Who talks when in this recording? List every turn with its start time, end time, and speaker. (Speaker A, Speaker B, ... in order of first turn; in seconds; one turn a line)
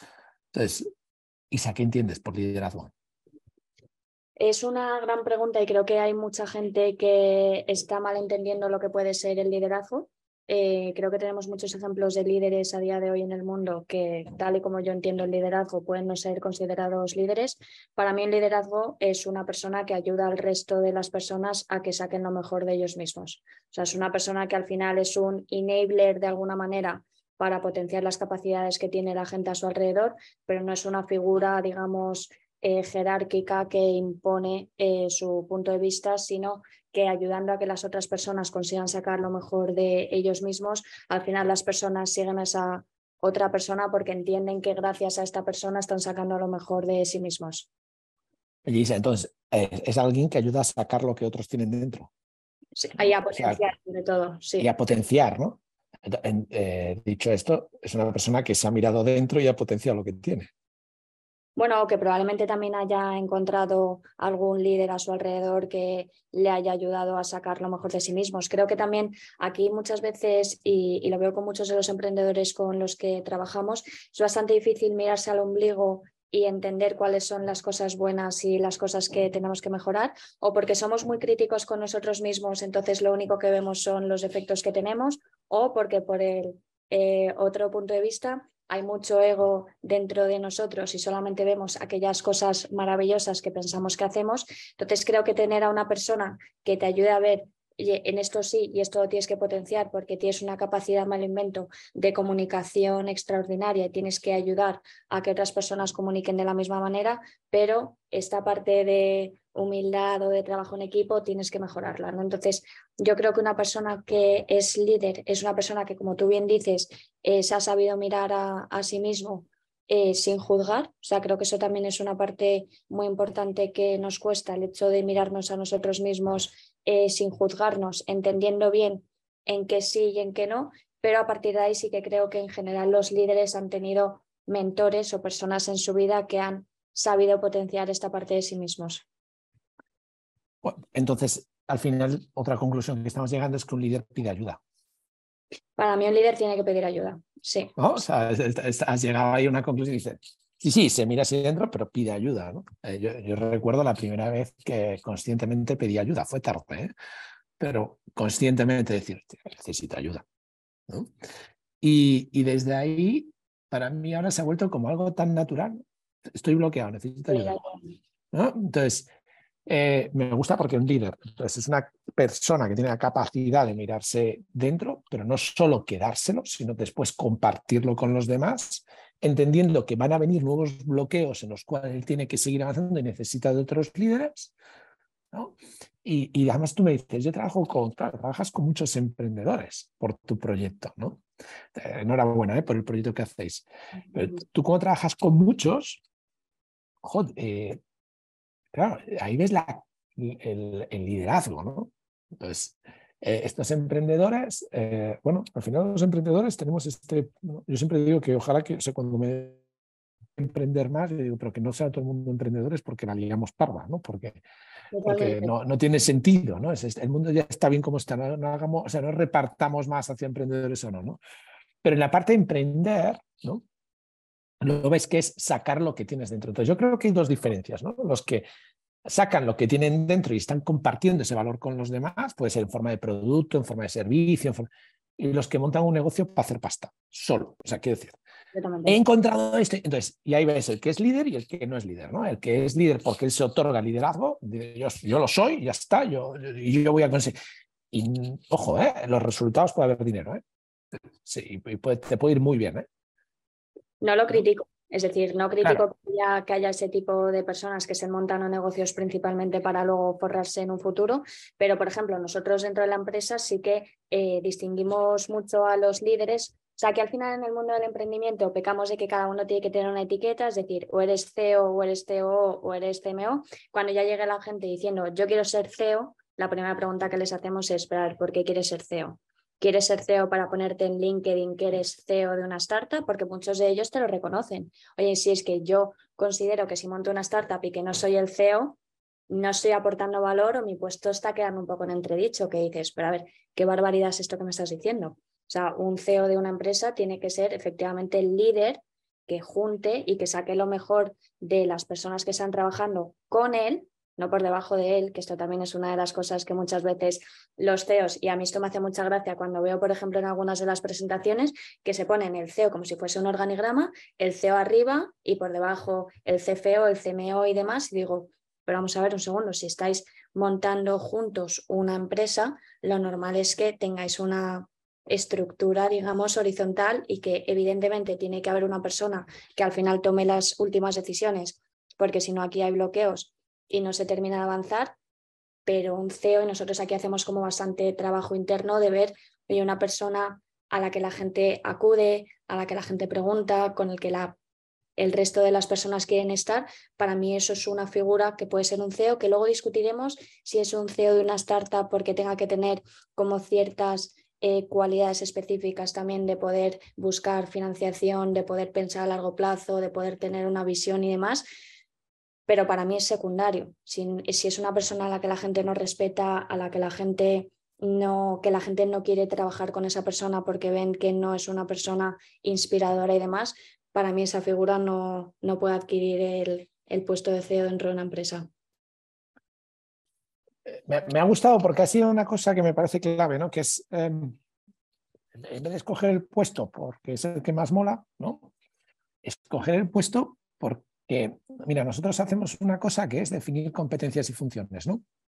Speaker A: 0.5-0.9
Speaker A: 1.5-2.9
Speaker B: 4.4-47.7
Speaker A: 48.6-52.1
Speaker B: 52.8-54.7
Speaker A: 53.3-53.6
Speaker A: 54.6-60.5
Speaker B: 61.6-139.0
Speaker A: 140.6-144.6
Speaker B: 145.8-147.7
Speaker A: 147.8-156.9
Speaker A: 157.6-160.2
Speaker A: 160.9-161.1
Speaker A: 161.8-165.8
Speaker A: 166.3-167.6
Speaker B: 167.3-167.8
Speaker A: 168.3-169.1
Speaker A: 169.7-184.5
Speaker A: 185.3-191.2
Speaker A: 191.8-196.0
Speaker A: 197.0-197.8
Speaker A: 198.7-209.6
Speaker A: 210.4-214.4
Speaker B: 214.9-215.5
Speaker A: 215.1-221.2
Speaker A: 221.8-223.6
Speaker A: 224.6-228.4
Speaker A: 229.1-238.2
Speaker B: 238.5-239.0
Speaker A: 238.9-247.3
Speaker A: 247.9-250.4
Speaker A: 251.2-252.9
Speaker B: 254.0-288.8
Speaker B: 289.3-335.0
Speaker B: 335.7-344.4
Speaker B: 345.0-361.5
Speaker B: 362.5-378.5
Speaker A: 380.7-384.4
Speaker A: 385.4-388.5
Speaker A: 389.2-395.0